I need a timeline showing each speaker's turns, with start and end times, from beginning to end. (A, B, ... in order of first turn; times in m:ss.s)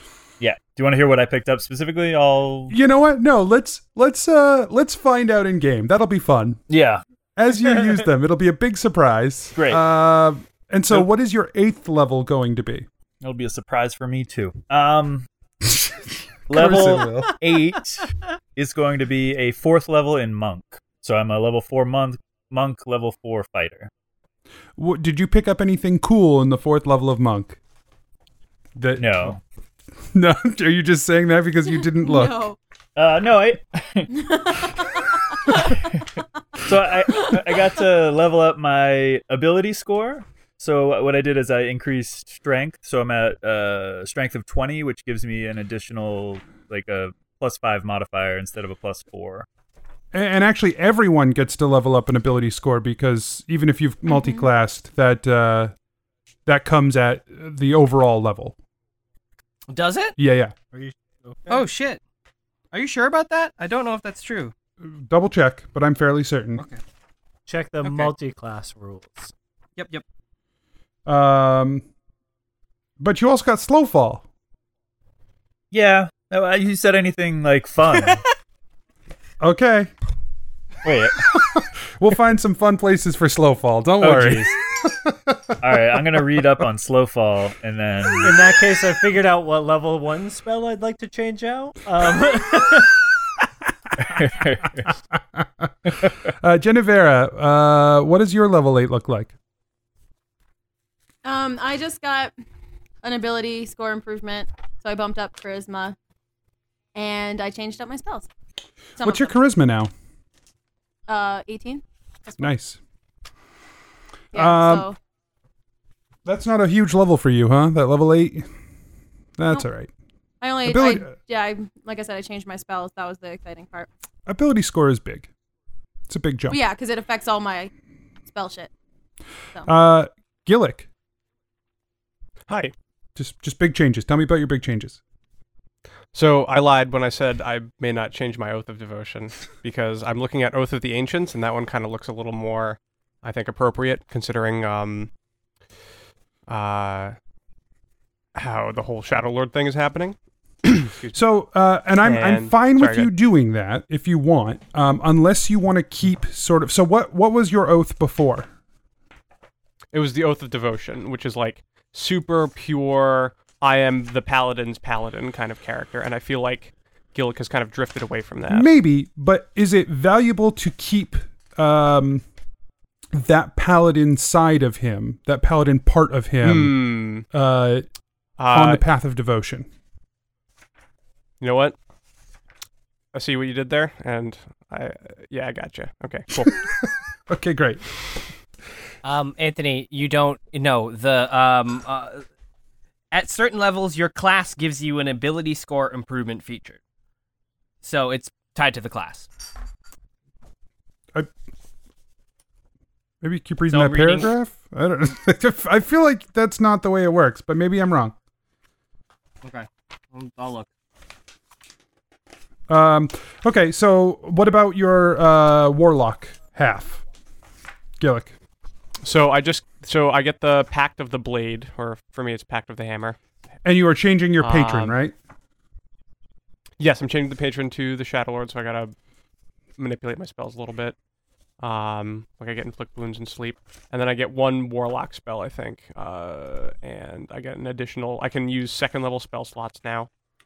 0:00.4-0:02.8 A
0:02.7-0:06.6 B
0:06.7-0:07.0 A
0:07.4-0:12.9 B
0:09.5-0:09.8 A
0:13.2-0:15.3 A
0:16.5-0:23.9 A
0:16.5-0:17.3 B
0:24.8-0:27.6 B
0:28.8-0:29.4 B
0:29.0-0:29.4 A
0:30.1-0:32.4 B
0:32.0-0:32.6 C
0:33.0-0:34.1 A
0:34.1-0:35.7 C
0:35.6-0:36.0 A
0:36.6-0:49.4 A
0:37.1-0:37.6 C
0:50.1-0:55.7 B
0:56.4-0:58.5 B
0:59.7-1:00.1 D
1:00.2-1:00.5 B
1:00.7-1:01.6 E
1:01.5-1:02.0 D
1:02.7-1:04.5 D
1:04.8-1:06.6 B
1:07.5-1:09.3 E
1:07.8-1:08.1 D
1:09.8-1:10.0 D
1:11.0-1:11.8 B
1:13.0-1:14.2 B
1:15.7-1:18.2 A
1:19.4-1:19.9 B
1:20.8-1:21.2 A
1:21.3-1:25.6 B
1:24.0-1:24.5 A
1:25.6-1:28.4 A
1:28.2-1:33.0 E
1:34.0-1:34.9 A
1:36.2-1:39.3 B
1:41.2-1:42.3 C
1:43.0-1:46.0 C
1:46.9-1:48.3 C
1:49.0-1:49.3 C
1:49.0-1:49.9 B
1:51.1-1:52.5 C
1:52.4-1:52.8 B
1:54.3-1:55.0 C
1:54.3-1:54.9 B
1:56.2-1:58.4 B
1:59.4-1:59.9 B
2:00.4-2:03.9 C
2:00.6-2:01.1 B
2:04.2-2:05.3 B
2:06.1-2:06.6 B
2:06.5-2:07.7 C
2:08.3-2:08.7 C
2:09.6-2:10.9 B
2:12.5-2:12.7 F
2:13.2-2:15.0 B
2:16.1-2:25.1 F
2:26.5-2:27.1 F
2:28.3-2:31.2 F
2:31.1-2:38.5 B
2:32.0-2:33.1 F
2:39.9-2:48.7 F
2:48.5-2:52.2 B
2:53.1-2:57.8 B
2:56.4-2:57.2 F
2:58.4-2:58.8 F
2:58.5-2:59.7 B
3:01.4-3:01.8 F
3:03.1-3:06.6 F
3:06.4-3:07.9 B
3:09.0-3:12.2 D
3:13.1-3:16.8 D
3:17.8-3:19.3 D
3:23.2-3:28.1 B
3:23.7-3:24.3 D
3:29.4-3:30.7 D
3:32.7-3:37.0 B
3:38.0-3:38.3 B
3:39.0-3:43.2 F
3:43.6-3:45.1 B
3:44.4-3:44.9 F
3:46.8-3:48.9 F
3:49.8-3:51.0 F
3:51.6-4:00.1 F